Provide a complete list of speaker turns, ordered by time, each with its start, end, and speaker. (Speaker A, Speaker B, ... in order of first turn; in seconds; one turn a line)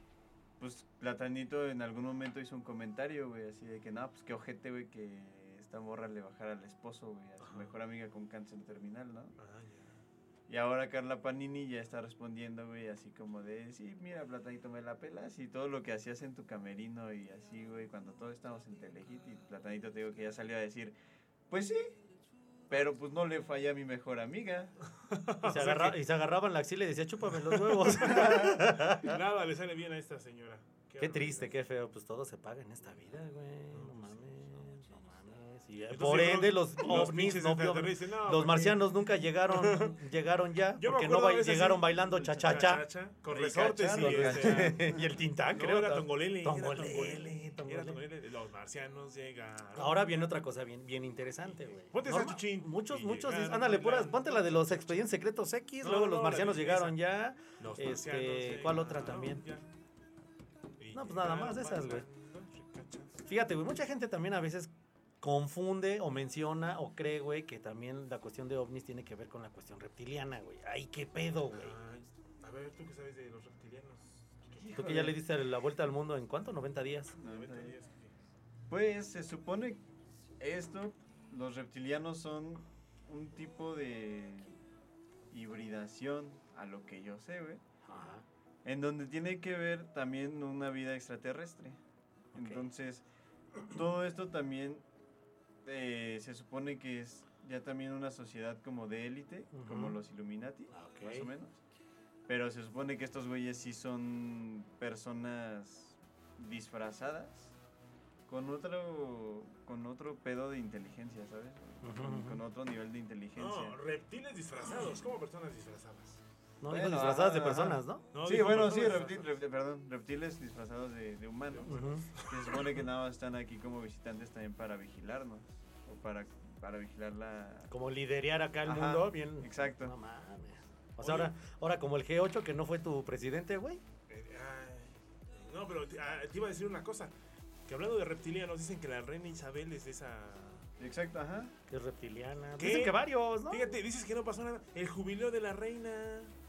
Speaker A: 0.6-9.3
Speaker B: 7.4-7.7
Speaker B: 9.4-10.0
Speaker A: 10.5-20.9
Speaker A: 21.5-22.0
Speaker A: 22.7-24.7
Speaker B: 25.0-26.0
Speaker C: 25.4-29.1
Speaker B: 27.3-31.6
Speaker A: 28.0-28.7
Speaker C: 31.0-42.8
Speaker B: 33.7-34.1
Speaker B: 35.9-40.0
Speaker B: 40.8-45.0
Speaker A: 43.3-45.1
Speaker C: 44.0-48.0
Speaker B: 45.5-50.3
Speaker C: 49.8-59.6
Speaker B: 51.8-55.1
Speaker B: 55.8-57.0
Speaker B: 57.6-59.6
Speaker B: 60.8-63.2
Speaker C: 60.9-62.0
Speaker C: 63.2-64.7
Speaker C: 65.2-71.7
Speaker B: 71.5-74.8
Speaker A: 74.6-75.2
Speaker C: 74.7-77.1
Speaker B: 77.2-78.1
Speaker A: 77.2-77.8
Speaker A: 78.7-79.8
Speaker A: 80.4-84.6
Speaker A: 85.3-87.6
Speaker C: 87.8-88.2
Speaker A: 88.6-91.8
Speaker A: 92.3-93.0
Speaker C: 92.3-92.7
Speaker A: 93.7-94.8
Speaker A: 95.6-101.6
Speaker C: 99.5-100.0
Speaker C: 100.7-101.3
Speaker A: 102.3-107.5
Speaker A: 108.3-113.8
Speaker C: 111.8-112.4
Speaker B: 113.3-116.2
Speaker C: 116.6-118.0
Speaker A: 116.7-127.7
Speaker B: 118.1-119.4
Speaker B: 121.5-122.7
Speaker C: 121.6-122.0
Speaker C: 127.7-133.8
Speaker A: 128.6-129.9
Speaker B: 131.0-131.3
Speaker B: 134.1-137.1
Speaker B: 137.7-140.7
Speaker A: 140.8-141.5
Speaker C: 141.7-143.7
Speaker B: 142.6-146.3